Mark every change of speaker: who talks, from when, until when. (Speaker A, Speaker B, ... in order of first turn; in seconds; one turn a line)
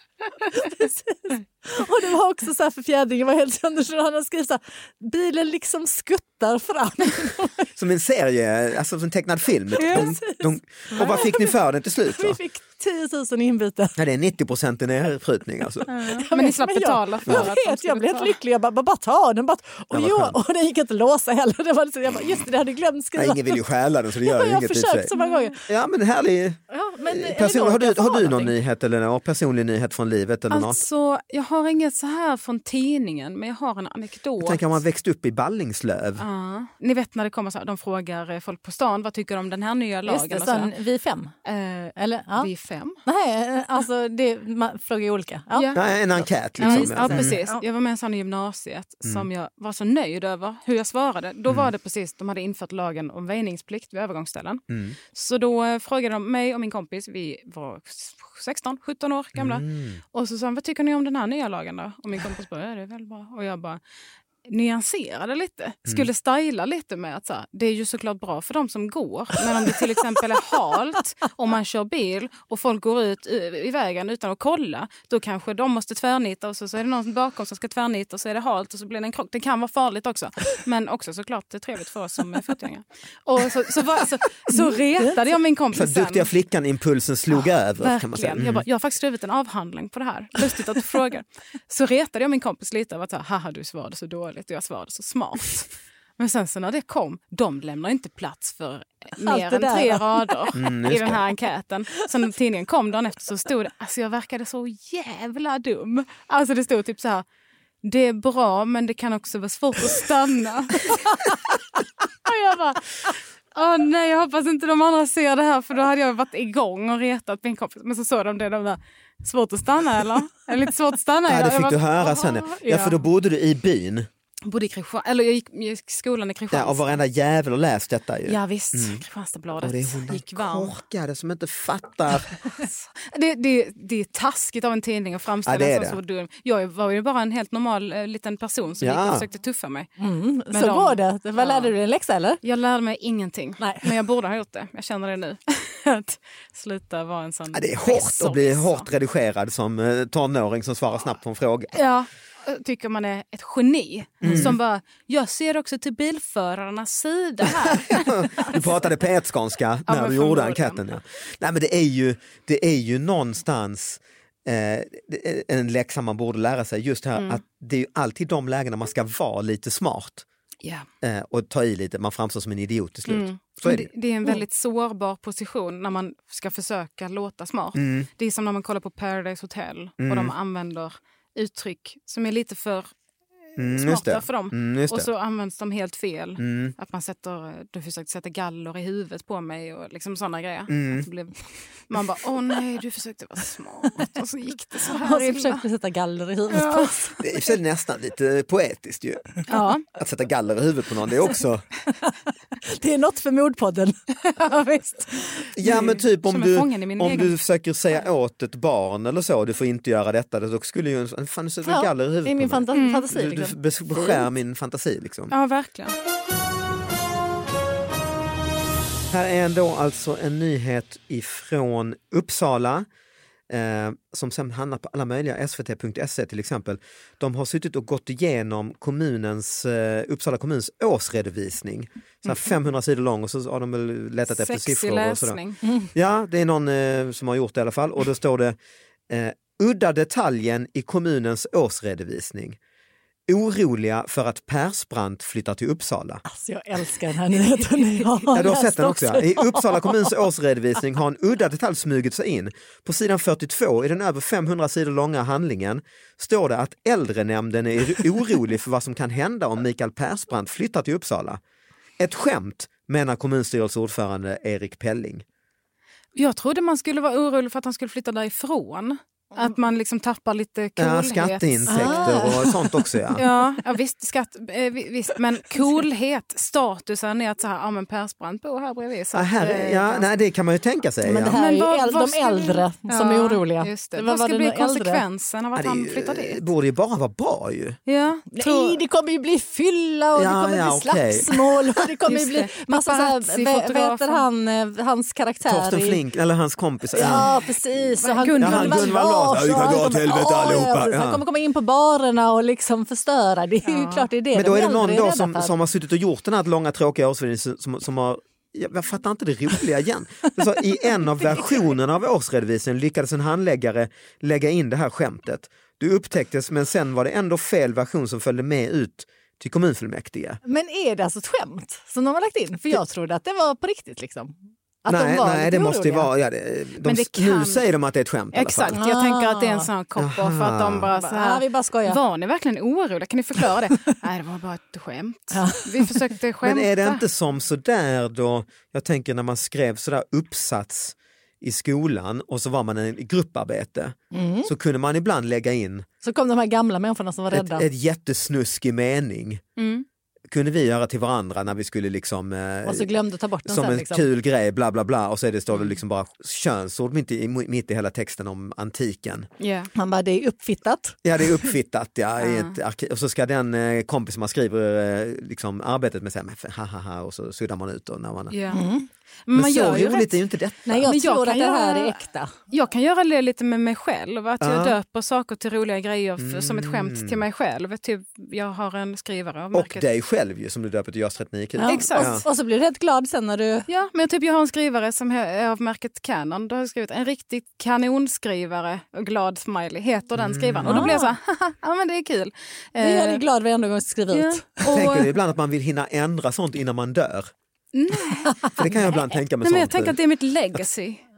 Speaker A: 0.5-0.8
Speaker B: 0.5-7.7
Speaker C: 7.8-12.4
Speaker B: 9.8-11.6
Speaker A: 9.8-10.1
Speaker B: 12.1-14.0
Speaker C: 14.0-15.9
Speaker B: 15.9-23.6
Speaker A: 16.1-18.4
Speaker C: 19.9-20.4
Speaker C: 23.2-25.1
Speaker B: 24.2-25.6
Speaker A: 25.2-25.5
Speaker C: 25.7-30.8
Speaker B: 26.7-28.6
Speaker A: 30.5-34.7
Speaker C: 34.4-36.2
Speaker A: 36.2-40.7
Speaker B: 40.1-41.4
Speaker A: 41.5-43.0
Speaker B: 42.0-42.5
Speaker B: 43.1-45.8
Speaker A: 45.5-45.8
Speaker C: 45.8-47.4
Speaker A: 46.6-63.8
Speaker B: 46.6-47.6
Speaker C: 54.7-55.0
Speaker C: 59.4-60.0
Speaker A: 64.5-86.3
Speaker B: 84.5-85.2
Speaker C: 85.7-88.7
Speaker A: 87.4-107.2
Speaker B: 99.2-100.4
Speaker C: 100.5-101.2
Speaker A: 107.8-111.6
Speaker A: 112.2-123.0
Speaker C: 121.3-124.1
Speaker A: 124.5-127.0
Speaker C: 126.5-129.0
Speaker A: 128.3-130.7
Speaker C: 129.6-132.4
Speaker A: 132.9-139.9
Speaker C: 135.5-136.0
Speaker C: 138.8-139.2
Speaker B: 140.0-142.4
Speaker A: 140.5-141.7
Speaker A: 142.4-148.9
Speaker B: 143.6-143.9
Speaker C: 147.5-151.8
Speaker A: 151.7-158.7
Speaker C: 154.2-154.6
Speaker C: 157.6-170.3
Speaker A: 159.9-160.8
Speaker A: 167.2-167.4
Speaker C: 171.0-173.9
Speaker A: 173.1-182.9
Speaker C: 177.8-178.1
Speaker C: 180.0-180.3
Speaker C: 183.6-185.1
Speaker A: 183.6-195.6
Speaker C: 186.4-186.8
Speaker C: 190.7-191.1
Speaker B: 194.9-197.2
Speaker A: 196.5-197.0
Speaker C: 197.2-199.4
Speaker A: 199.5-199.8
Speaker C: 199.9-201.7
Speaker B: 202.6-205.4
Speaker C: 205.6-215.3
Speaker A: 205.6-207.4
Speaker B: 211.7-214.2
Speaker A: 212.7-213.1
Speaker A: 215.3-215.9
Speaker C: 219.1-222.9
Speaker C: 223.5-235.4
Speaker A: 234.3-235.6
Speaker C: 235.9-238.6
Speaker C: 239.1-242.6
Speaker C: 243.3-246.2
Speaker B: 246.2-250.2
Speaker C: 248.3-261.4
Speaker C: 262.0-265.2
Speaker A: 266.2-272.3
Speaker C: 270.8-273.2
Speaker B: 271.7-273.2
Speaker A: 273.2-280.1
Speaker C: 279.1-281.4
Speaker B: 281.0-285.0
Speaker A: 281.2-286.4
Speaker C: 285.6-287.8
Speaker A: 287.9-288.8
Speaker B: 288.3-296.0
Speaker C: 290.2-291.6
Speaker A: 292.1-294.3
Speaker C: 295.5-297.3
Speaker B: 296.9-305.5
Speaker A: 297.1-297.3
Speaker A: 298.0-299.1
Speaker C: 298.4-301.2
Speaker A: 303.6-304.1
Speaker C: 304.3-320.4
Speaker B: 320.4-326.1
Speaker C: 324.9-328.8
Speaker A: 326.8-327.6
Speaker A: 328.3-337.0
Speaker B: 328.7-329.7
Speaker C: 330.0-330.9
Speaker B: 330.9-332.0
Speaker B: 335.3-336.1
Speaker C: 336.4-345.9
Speaker B: 344.1-344.5
Speaker B: 346.0-347.7
Speaker C: 347.3-349.4
Speaker A: 349.6-349.9
Speaker C: 350.3-352.9
Speaker B: 352.7-354.1
Speaker C: 353.5-359.3
Speaker A: 359.4-359.7
Speaker B: 359.8-361.4
Speaker C: 361.0-368.4
Speaker A: 362.2-362.6
Speaker A: 368.3-368.7
Speaker B: 368.5-368.9
Speaker A: 369.3-370.2
Speaker C: 369.3-370.9
Speaker B: 370.7-372.3
Speaker A: 370.9-379.9
Speaker C: 374.4-374.8
Speaker C: 376.2-377.2
Speaker C: 379.5-382.2
Speaker B: 381.6-383.7
Speaker A: 381.6-382.2
Speaker A: 383.7-393.2
Speaker C: 390.1-390.9
Speaker B: 390.7-391.1
Speaker B: 392.8-394.8
Speaker A: 394.1-395.1
Speaker C: 394.7-397.3
Speaker A: 397.7-398.7
Speaker C: 398.6-399.9
Speaker A: 399.4-401.0